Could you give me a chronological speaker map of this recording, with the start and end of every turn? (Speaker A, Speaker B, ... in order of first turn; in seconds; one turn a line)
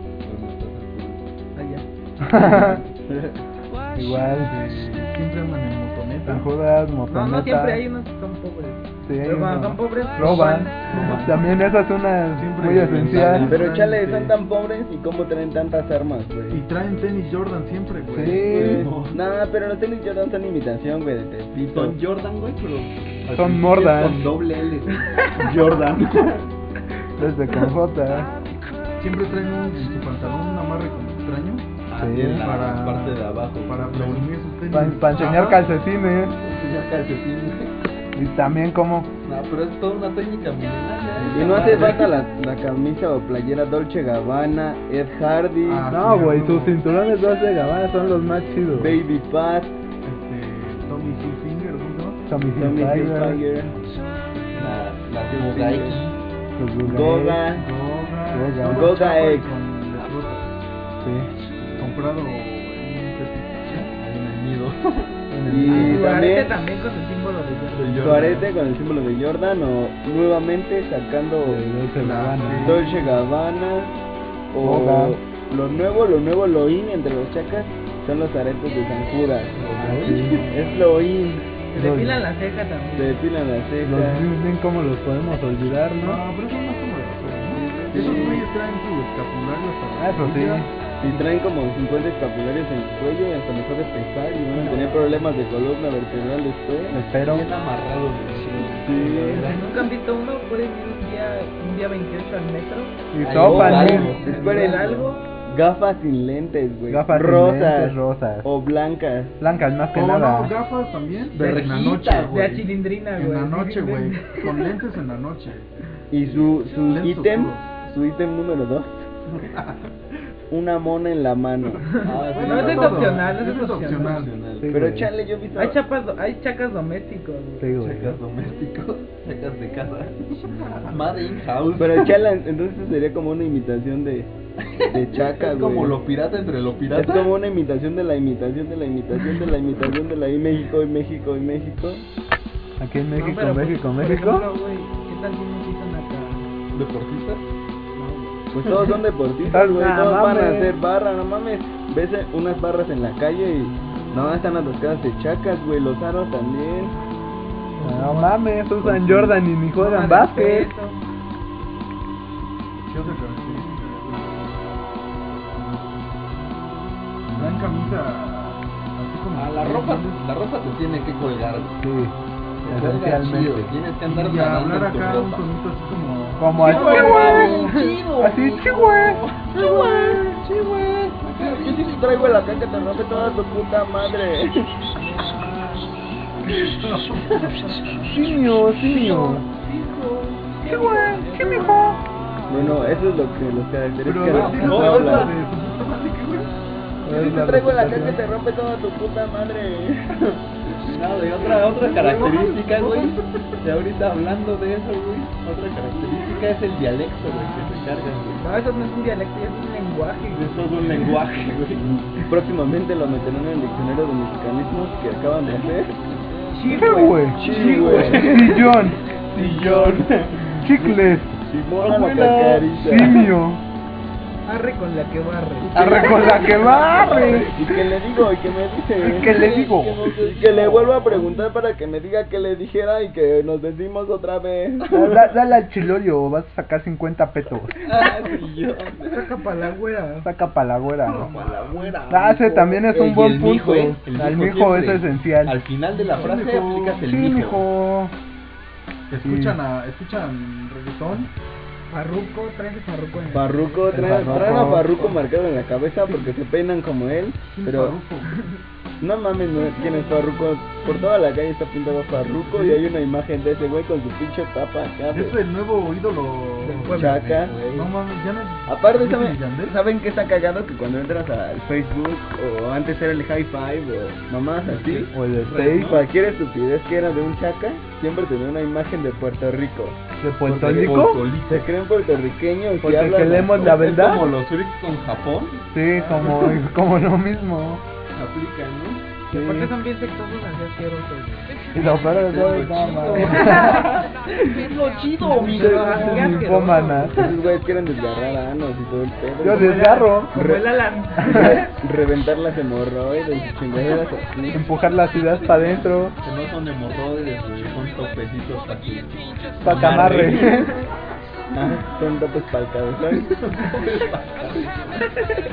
Speaker A: 0.2-1.3
Speaker B: 1.6-1.9
Speaker C: 2.2-2.8
Speaker A: 2.5-2.8
Speaker C: 4.0-4.5
Speaker D: 4.4-6.5
Speaker C: 6.2-7.8
Speaker B: 7.1-11.2
Speaker C: 9.0-13.5
Speaker A: 10.9-11.4
Speaker D: 11.0-11.4
Speaker D: 12.3-14.3
Speaker A: 12.9-13.7
Speaker E: 13.5-16.7
Speaker D: 16.5-18.6
Speaker C: 18.1-18.9
Speaker E: 18.5-22.0
Speaker A: 18.5-19.2
Speaker A: 21.6-26.5
Speaker C: 23.3-24.3
Speaker C: 27.2-28.3
Speaker D: 29.0-31.7
Speaker A: 31.9-34.3
Speaker C: 32.0-32.4
Speaker D: 32.4-35.6
Speaker C: 34.7-36.4
Speaker A: 35.2-37.8
Speaker C: 38.2-39.1
Speaker A: 39.2-42.1
Speaker D: 41.2-41.9
Speaker E: 41.3-45.9
Speaker D: 45.6-46.8
Speaker C: 45.9-49.0
Speaker E: 48.7-49.8
Speaker D: 50.0-52.3
Speaker C: 52.3-53.4
Speaker E: 52.6-53.8
Speaker A: 54.5-56.3
Speaker E: 55.3-56.0
Speaker C: 56.6-57.4
Speaker E: 56.8-57.6
Speaker D: 57.5-60.7
Speaker C: 58.3-58.9
Speaker E: 58.7-59.5
Speaker C: 61.0-61.3
Speaker A: 61.6-62.0
Speaker D: 61.8-63.9
Speaker A: 63.9-65.2
Speaker C: 65.3-66.1
Speaker E: 65.5-66.5
Speaker B: 65.7-68.2
Speaker A: 67.7-68.5
Speaker E: 68.0-71.6
Speaker C: 71.4-72.8
Speaker D: 72.0-73.2
Speaker E: 72.6-74.0
Speaker E: 74.5-81.5
Speaker C: 74.6-75.2
Speaker A: 79.6-80.5
Speaker C: 79.8-80.6
Speaker B: 81.7-83.2
Speaker C: 81.8-82.3
Speaker E: 83.0-84.3
Speaker C: 83.8-86.2
Speaker D: 86.0-90.7
Speaker E: 87.5-88.5
Speaker A: 87.9-88.4
Speaker C: 90.0-90.7
Speaker E: 91.0-97.0
Speaker C: 94.5-94.9
Speaker C: 96.9-97.5
Speaker A: 97.2-98.9
Speaker E: 98.7-99.6
Speaker C: 98.8-99.7
Speaker B: 99.5-103.0
Speaker C: 103.1-104.2
Speaker A: 103.2-105.0
Speaker E: 103.4-109.4
Speaker B: 103.5-105.2
Speaker C: 106.9-108.5
Speaker C: 109.4-110.5
Speaker D: 109.9-112.4
Speaker A: 111.3-112.7
Speaker B: 112.3-114.8
Speaker D: 113.2-115.8
Speaker E: 116.1-119.1
Speaker D: 116.4-117.7
Speaker A: 119.3-119.9
Speaker E: 120.5-121.9
Speaker B: 121.9-124.3
Speaker A: 122.0-123.3
Speaker D: 122.2-124.3
Speaker A: 124.0-124.8
Speaker C: 124.6-125.1
Speaker E: 124.7-125.8
Speaker B: 125.6-127.7
Speaker C: 127.6-128.2
Speaker A: 127.8-132.2
Speaker D: 130.5-131.0
Speaker E: 131.8-134.3
Speaker A: 134.8-137.3
Speaker E: 134.9-136.0
Speaker E: 136.9-142.1
Speaker C: 142.8-144.5
Speaker B: 143.2-146.5
Speaker A: 146.7-147.5
Speaker B: 147.9-148.5
Speaker E: 148.5-157.0
Speaker C: 149.5-150.7
Speaker B: 157.8-158.3
Speaker C: 157.8-160.7
Speaker B: 159.7-161.0
Speaker D: 162.9-164.6
Speaker C: 167.3-168.0
Speaker D: 167.3-170.2
Speaker A: 169.3-171.8
Speaker C: 171.8-172.2
Speaker A: 172.6-175.5
Speaker C: 172.7-173.7
Speaker D: 174.1-177.8
Speaker C: 176.4-179.2
Speaker A: 176.6-182.3
Speaker B: 176.7-177.9
Speaker E: 181.4-184.7
Speaker D: 186.5-187.8
Speaker C: 188.1-189.4
Speaker B: 188.9-191.8
Speaker C: 190.7-192.0
Speaker E: 192.5-195.3
Speaker A: 192.6-192.9
Speaker D: 194.1-196.5
Speaker A: 194.3-195.4
Speaker C: 197.1-198.2
Speaker E: 197.1-200.1
Speaker A: 200.2-208.5
Speaker D: 201.5-203.6
Speaker B: 208.4-211.2
Speaker A: 210.3-211.9
Speaker E: 212.2-216.0
Speaker B: 216.5-218.6
Speaker C: 216.7-217.4
Speaker E: 217.3-218.3
Speaker A: 217.4-220.5
Speaker C: 218.1-219.0
Speaker B: 219.3-220.6
Speaker C: 220.6-221.3
Speaker E: 221.4-223.2
Speaker A: 221.8-223.2
Speaker C: 222.8-223.6
Speaker B: 224.5-227.4
Speaker C: 225.8-227.5
Speaker A: 225.8-227.6
Speaker E: 227.2-229.5
Speaker C: 229.0-230.0
Speaker A: 229.2-231.3
Speaker E: 230.2-235.2
Speaker C: 234.9-237.8
Speaker A: 237.8-239.4
Speaker B: 239.1-240.3
Speaker C: 240.2-241.3
Speaker D: 241.0-242.0
Speaker A: 241.2-247.7
Speaker C: 242.1-245.6
Speaker D: 246.1-247.1
Speaker C: 247.0-248.2
Speaker D: 249.1-251.3
Speaker C: 249.2-249.6
Speaker B: 251.9-254.1
Speaker E: 253.3-258.0
Speaker C: 253.9-254.9
Speaker A: 254.5-254.8
Speaker D: 257.6-258.5
Speaker E: 259.0-265.4
Speaker D: 262.2-262.8
Speaker D: 265.1-267.1
Speaker B: 266.7-267.2
Speaker A: 266.8-267.9
Speaker E: 266.9-267.6
Speaker D: 267.7-269.8
Speaker E: 268.7-275.1
Speaker A: 274.7-276.0
Speaker C: 275.1-276.0
Speaker E: 275.7-280.0
Speaker C: 280.2-281.2
Speaker A: 280.4-281.7
Speaker E: 281.4-283.8
Speaker C: 282.8-284.3
Speaker A: 283.3-286.5
Speaker C: 285.7-287.8
Speaker A: 288.1-289.1
Speaker C: 289.3-289.7
Speaker B: 289.3-291.6
Speaker C: 291.7-293.9
Speaker A: 292.3-296.4
Speaker B: 292.8-294.0
Speaker B: 295.2-297.3
Speaker D: 295.4-296.3
Speaker C: 295.9-297.2
Speaker E: 297.1-299.8
Speaker C: 299.4-300.4
Speaker B: 299.5-301.7
Speaker E: 300.3-300.6
Speaker C: 301.2-301.6
Speaker E: 301.3-304.6
Speaker C: 304.5-306.2
Speaker A: 305.5-310.7
Speaker C: 309.6-310.7
Speaker B: 310.4-310.8
Speaker E: 311.5-313.5
Speaker A: 313.3-315.0